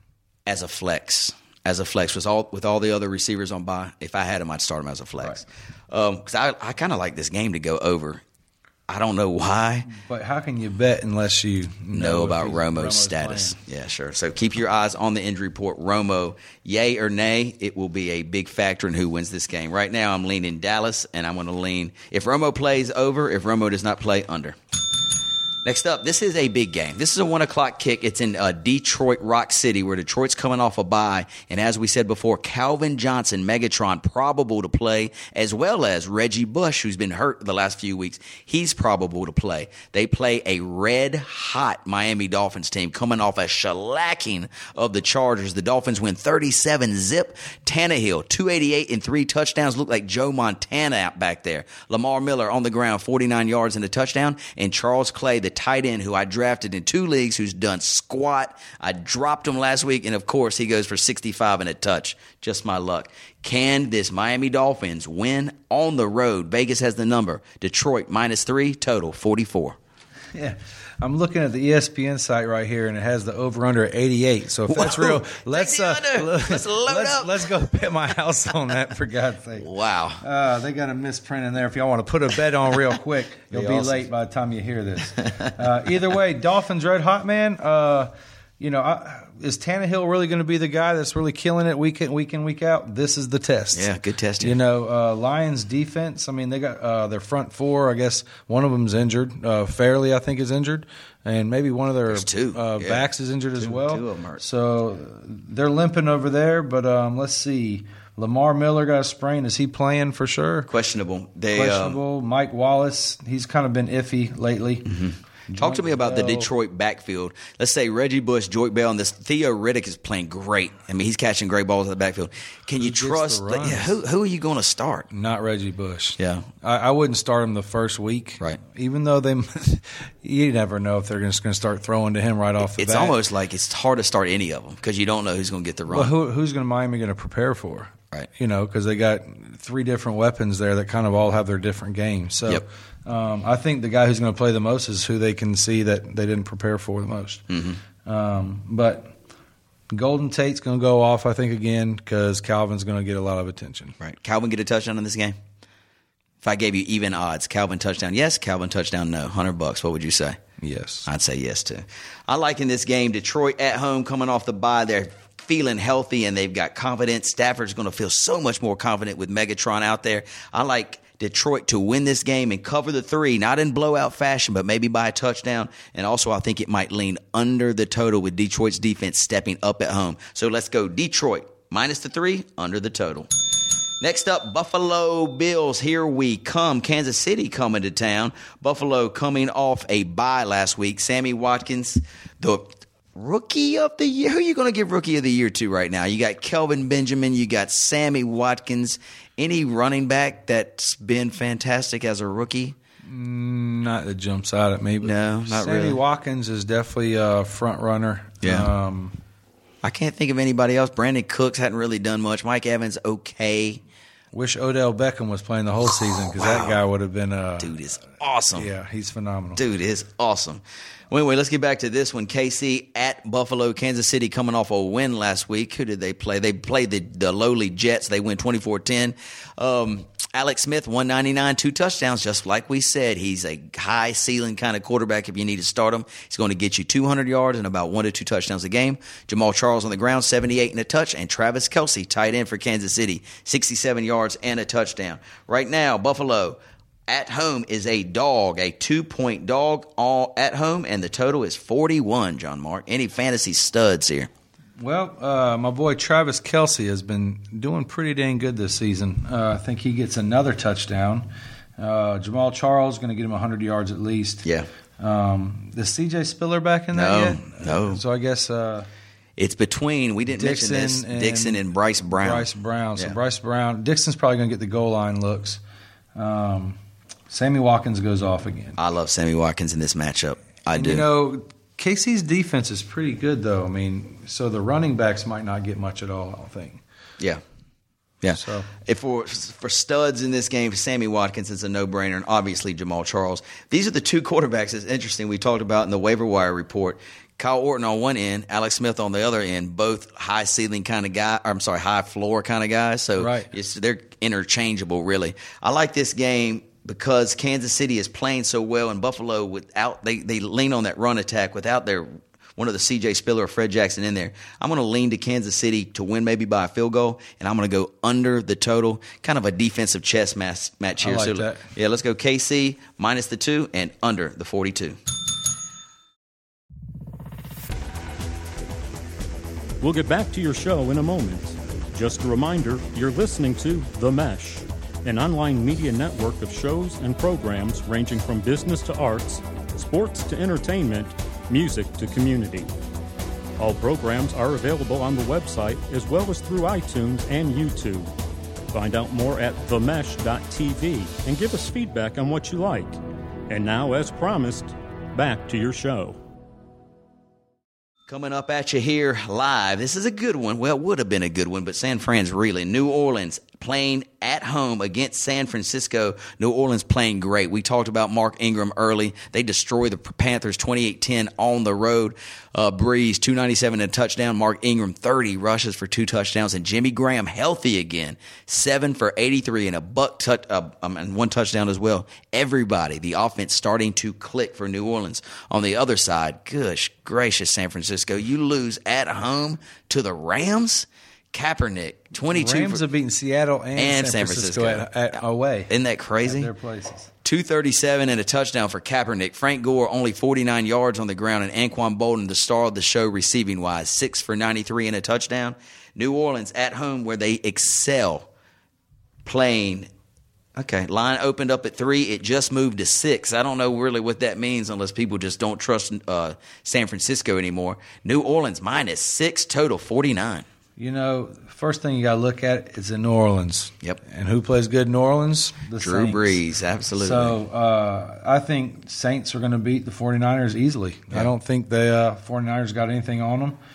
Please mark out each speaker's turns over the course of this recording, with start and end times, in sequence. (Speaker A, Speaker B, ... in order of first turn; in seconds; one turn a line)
Speaker A: 0.5-8.2
Speaker A: 8.9-9.9
Speaker B: 9.8-13.6
Speaker A: 11.9-24.6
Speaker A: 25.6-69.8
Speaker B: 70.3-110.7
Speaker A: 74.7-77.5
Speaker A: 79.6-80.2
Speaker A: 83.5-84.0
Speaker A: 85.2-85.5
Speaker A: 93.7-94.5
Speaker A: 102.1-103.0
Speaker A: 103.6-104.4
Speaker A: 110.7-112.0
Speaker B: 111.5-114.9
Speaker A: 114.8-125.1
Speaker B: 115.5-116.5
Speaker B: 122.8-124.0
Speaker B: 125.1-133.2
Speaker A: 126.2-126.5
Speaker A: 132.8-136.1
Speaker B: 135.9-147.4
Speaker A: 147.5-147.8
Speaker B: 148.0-149.1
Speaker B: 149.9-154.0
Speaker A: 154.0-155.3
Speaker A: 156.4-160.4
Speaker B: 160.6-161.1
Speaker A: 161.1-183.3
Speaker A: 184.0-202.8
Speaker B: 203.1-209.2
Speaker A: 205.0-206.0
Speaker A: 208.4-208.7
Speaker A: 209.8-213.8
Speaker B: 214.3-217.7
Speaker A: 216.3-216.8
Speaker A: 217.6-218.7
Speaker B: 218.5-219.6
Speaker A: 219.6-254.3
Speaker B: 254.8-261.3
Speaker B: 261.8-264.5
Speaker B: 265.0-268.9
Speaker A: 266.9-268.0
Speaker A: 269.4-273.1
Speaker B: 270.4-275.6
Speaker B: 276.1-276.8
Speaker B: 277.3-278.8
Speaker A: 278.8-281.0
Speaker B: 280.7-286.8
Speaker A: 288.2-325.0
Speaker B: 288.3-288.7
Speaker B: 303.2-303.5
Speaker B: 321.0-321.6
Speaker C: 329.8-342.7
Speaker C: 343.6-348.1
Speaker C: 348.7-356.2
Speaker A: 358.1-392.8
Speaker B: 392.3-395.7
Speaker A: 393.8-394.9
Speaker A: 395.7-396.5
Speaker B: 396.2-397.1
Speaker A: 397.2-408.3
Speaker A: 409.2-409.9
Speaker A: 410.5-420.4
Speaker B: 420.8-426.4
Speaker A: 425.8-427.4
Speaker B: 427.0-433.6